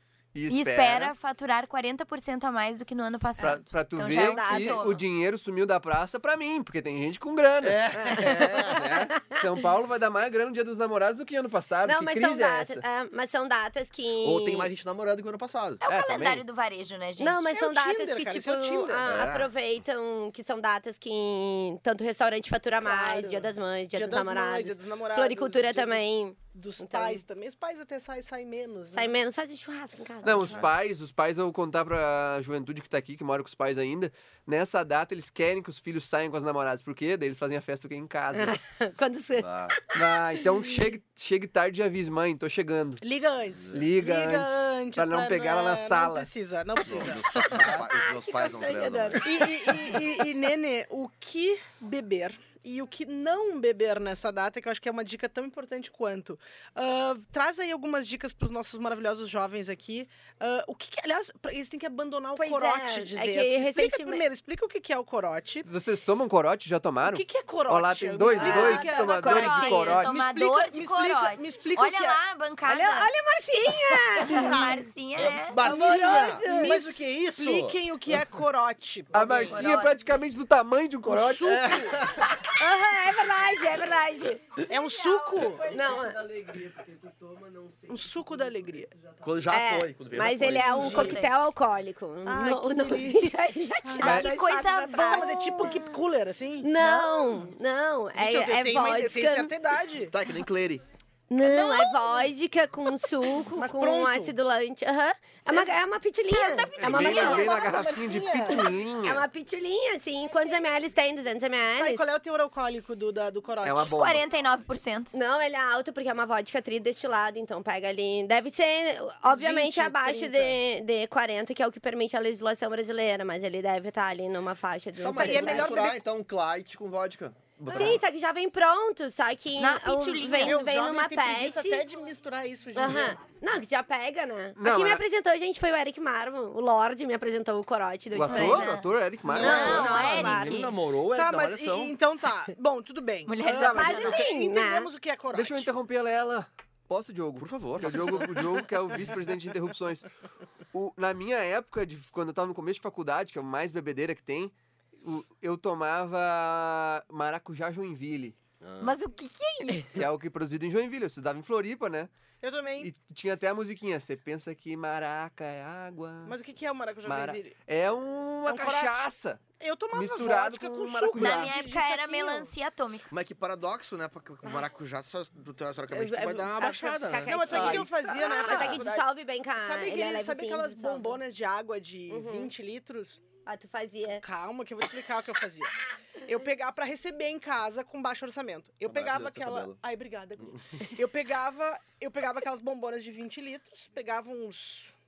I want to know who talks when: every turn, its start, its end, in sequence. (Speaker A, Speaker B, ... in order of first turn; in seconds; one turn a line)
Speaker A: 0.3-1.1
Speaker B: 0.5-5.0
Speaker A: 3.4-12.8
Speaker C: 4.0-5.0
Speaker D: 7.6-8.9
Speaker C: 8.0-9.4
Speaker C: 11.8-14.7
Speaker D: 14.2-15.8
Speaker B: 15.8-17.5
Speaker A: 15.8-16.4
Speaker C: 17.2-27.2
Speaker E: 17.4-19.1
Speaker D: 19.0-19.5
Speaker E: 22.8-29.1
Speaker C: 28.9-30.6
Speaker A: 30.2-38.6
Speaker D: 30.4-30.7
Speaker C: 38.3-40.9
Speaker D: 39.4-39.8
Speaker A: 39.9-43.0
Speaker E: 43.0-47.7
Speaker D: 43.5-43.9
Speaker A: 43.7-46.3
Speaker D: 46.8-49.5
Speaker A: 47.6-47.9
Speaker C: 47.9-49.7
Speaker E: 49.2-65.7
Speaker C: 62.4-64.2
Speaker A: 65.7-70.2
Speaker E: 67.0-72.2
Speaker C: 68.3-69.6
Speaker B: 68.4-73.1
Speaker C: 72.7-74.8
Speaker E: 74.2-74.8
Speaker B: 74.2-75.6
Speaker D: 75.2-78.3
Speaker C: 75.5-76.9
Speaker E: 75.6-79.9
Speaker A: 79.1-81.8
Speaker B: 79.3-80.0
Speaker E: 81.0-82.1
Speaker D: 81.4-82.4
Speaker C: 82.5-84.5
Speaker E: 84.6-85.8
Speaker C: 85.5-86.3
Speaker E: 87.8-88.9
Speaker D: 89.2-91.0
Speaker C: 89.5-96.0
Speaker E: 90.5-91.3
Speaker B: 90.8-91.5
Speaker E: 92.2-94.2
Speaker A: 94.0-94.3
Speaker B: 94.0-95.6
Speaker E: 95.0-97.1
Speaker C: 96.6-99.5
Speaker B: 96.8-97.3
Speaker E: 98.1-100.1
Speaker D: 100.1-100.8
Speaker C: 101.3-107.8
Speaker B: 101.4-102.2
Speaker E: 103.5-104.3
Speaker B: 106.3-107.7
Speaker A: 106.8-109.2
Speaker E: 107.0-108.7
Speaker C: 108.5-112.1
Speaker E: 111.8-114.0
Speaker A: 113.6-114.2
Speaker B: 113.8-115.1
Speaker C: 115.1-125.9
Speaker E: 119.3-120.6
Speaker D: 125.0-128.0
Speaker E: 125.0-126.0
Speaker C: 127.7-131.8
Speaker B: 129.6-130.6
Speaker E: 130.4-133.2
Speaker C: 132.7-138.8
Speaker A: 134.6-135.0
Speaker A: 138.1-140.6
Speaker B: 138.3-140.7
Speaker E: 139.3-139.9
Speaker C: 139.3-140.7
Speaker D: 139.7-141.9
Speaker E: 141.1-145.7
Speaker B: 143.3-144.2
Speaker C: 143.5-144.9
Speaker A: 143.6-144.0
Speaker A: 145.3-150.1
Speaker D: 147.4-148.4
Speaker A: 150.7-158.3
Speaker D: 158.6-159.0
Speaker B: 158.8-160.0
Speaker A: 159.9-162.1
Speaker E: 162.4-162.9
Speaker A: 162.8-166.3
Speaker E: 166.2-167.5
Speaker A: 167.0-169.4
Speaker E: 168.4-169.0
Speaker E: 169.6-172.5
Speaker A: 169.9-171.5
Speaker B: 171.1-173.1
Speaker D: 173.1-177.8
Speaker C: 175.9-181.2
Speaker E: 177.2-183.2
Speaker A: 177.5-177.9
Speaker C: 182.1-182.5
Speaker C: 183.4-184.2
Speaker E: 184.2-194.9
Speaker D: 188.8-189.8